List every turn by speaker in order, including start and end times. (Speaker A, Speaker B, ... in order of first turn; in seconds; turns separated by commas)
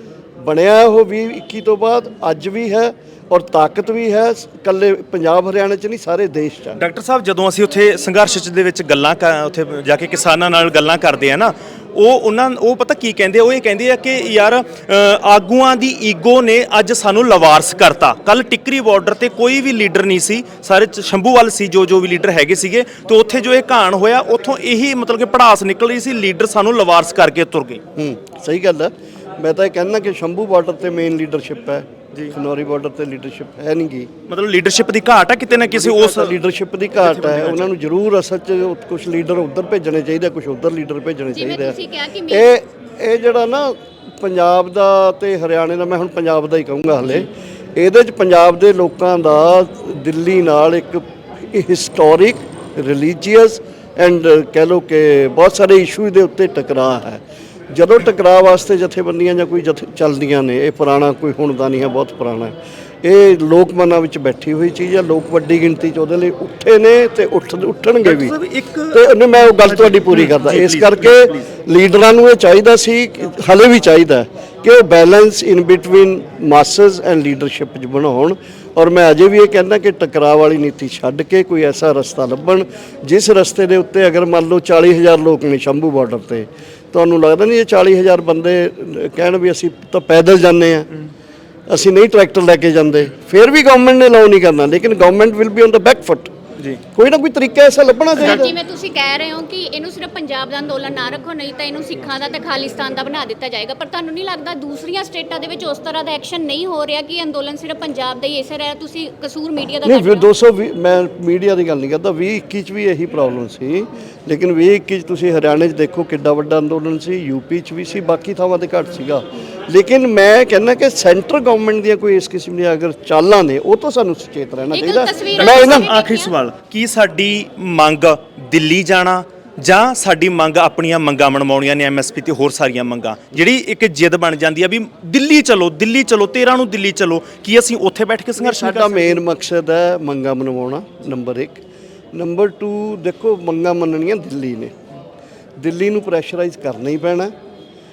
Speaker A: 0.4-6.8, Speaker B: 6.8-27.8, Speaker A: 28.0-34.1, Speaker B: 34.3-36.4, Speaker A: 35.8-68.3, Speaker B: 37.0-37.7, Speaker C: 41.3-42.5, Speaker B: 68.0-71.5, Speaker A: 68.9-90.9, Speaker A: 91.7-96.3, Speaker A: 96.9-98.5, Speaker C: 98.2-110.3, Speaker A: 109.8-125.9, Speaker C: 124.7-126.3, Speaker B: 125.4-139.2, Speaker A: 138.4-141.6, Speaker A: 142.1-144.7, Speaker A: 145.6-147.3